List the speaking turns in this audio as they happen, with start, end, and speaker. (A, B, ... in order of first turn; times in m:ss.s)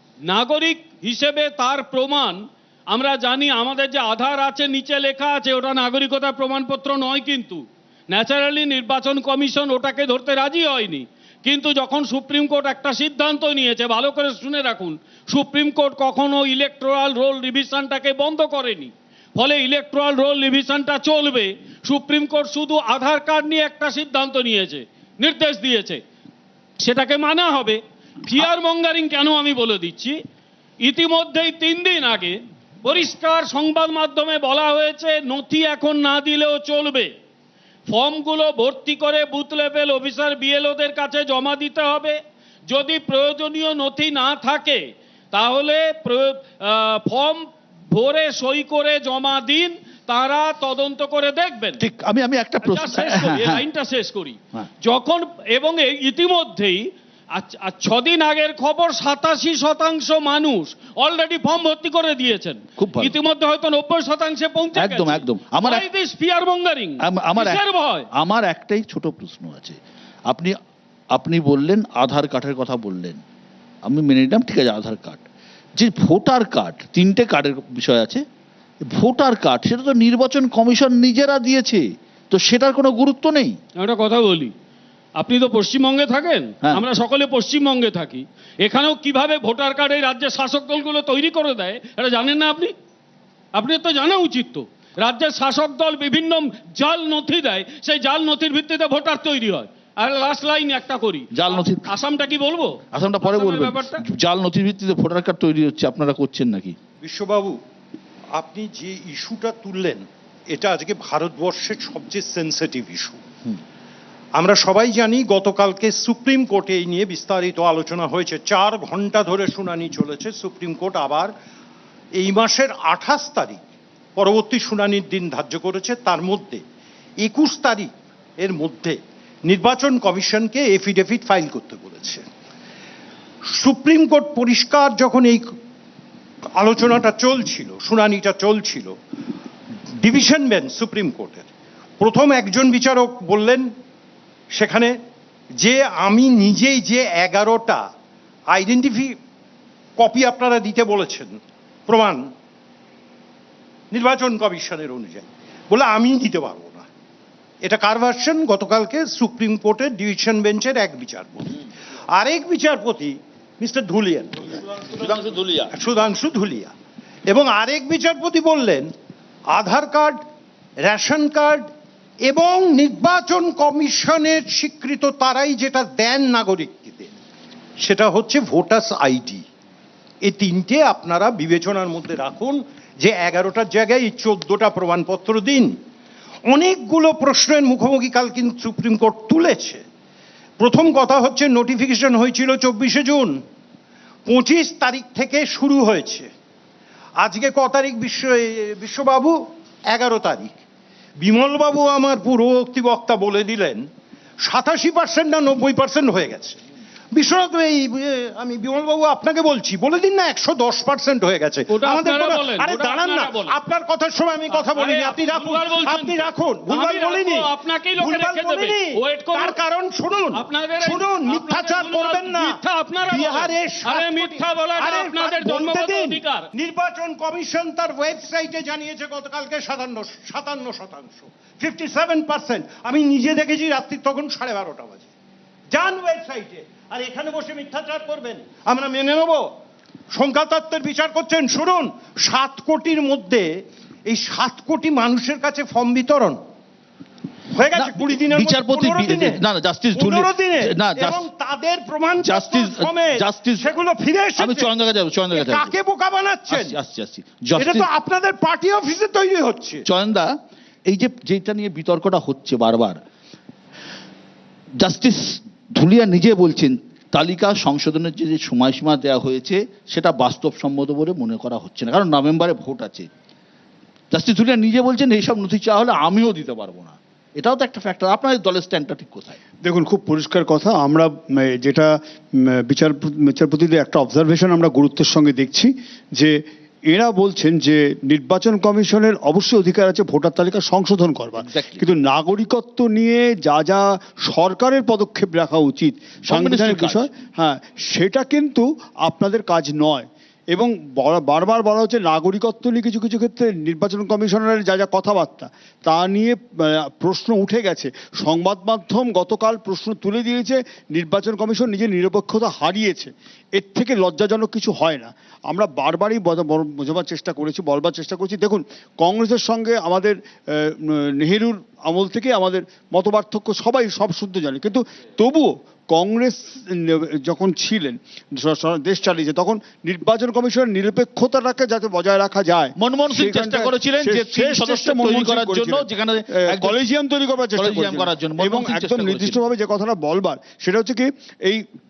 0:00.3-0:26.0 A
0:26.8-0:30.2 A
0:30.8-0:37.1 A
0:37.9-0:42.2 A
0:42.7-0:44.8 A
0:45.3-0:51.8 A
0:51.8-0:53.7 B
0:52.6-1:08.1 A
1:02.8-1:03.2 B
1:04.7-1:05.9 B
1:07.0-1:07.6 B
1:08.2-1:09.8 B
1:10.3-1:10.5 B
1:11.1-1:13.2 B
1:13.9-1:15.2 B
1:15.8-1:18.2 B
1:18.9-1:23.6 B
1:23.8-1:24.5 A
1:25.2-1:32.7 A
1:33.5-1:44.0 A
1:41.3-1:41.9 B
1:42.9-1:46.8 B
1:47.0-1:47.6 C
1:48.4-1:53.2 C
1:54.4-2:01.3 C
2:02.2-2:03.6 C
2:04.2-2:06.6 C
2:07.2-2:07.9 C
2:08.4-2:12.3 C
2:13.5-2:15.4 C
2:16.6-2:19.0 C
2:20.0-2:21.5 C
2:22.0-2:23.7 C
2:24.5-2:25.0 C
2:25.6-2:27.9 C
2:28.5-2:29.2 C
2:30.0-2:32.3 C
2:33.9-2:36.9 C
2:37.6-2:41.6 C
2:42.1-2:44.6 C
2:44.8-2:45.7 B
2:45.7-2:46.7 C
2:47.3-2:48.9 C
2:49.5-2:50.2 C
2:50.8-2:51.7 C
2:52.2-2:57.1 C
2:57.8-2:59.4 C
3:00.2-3:05.8 C
3:06.5-3:09.8 C
3:10.6-3:13.4 C
3:14.3-3:16.3 C
3:17.2-3:20.5 C
3:21.2-3:23.9 C
3:24.4-3:26.6 C
3:27.1-3:55.1 C
3:31.7-3:33.5 A
3:34.5-3:39.6 A
3:40.3-3:46.5 A
3:55.7-3:59.5 C
4:00.1-4:03.5 C
4:04.1-4:06.4 C
4:07.5-4:09.4 C
4:07.7-4:11.2 B
4:09.9-4:14.7 C
4:12.2-4:13.7 B
4:14.4-4:15.8 B
4:15.3-4:16.8 C
4:16.5-4:17.9 B
4:17.6-4:19.8 C
4:19.8-4:20.3 B
4:20.9-4:23.0 B
4:24.8-4:33.1 B
4:34.1-4:39.4 B
4:39.6-4:41.9 D
4:42.4-4:46.4 D
4:46.9-5:41.6 D
4:51.4-4:51.9 B
4:56.3-4:57.1 B
5:32.8-5:36.8 B
5:37.5-5:39.4 B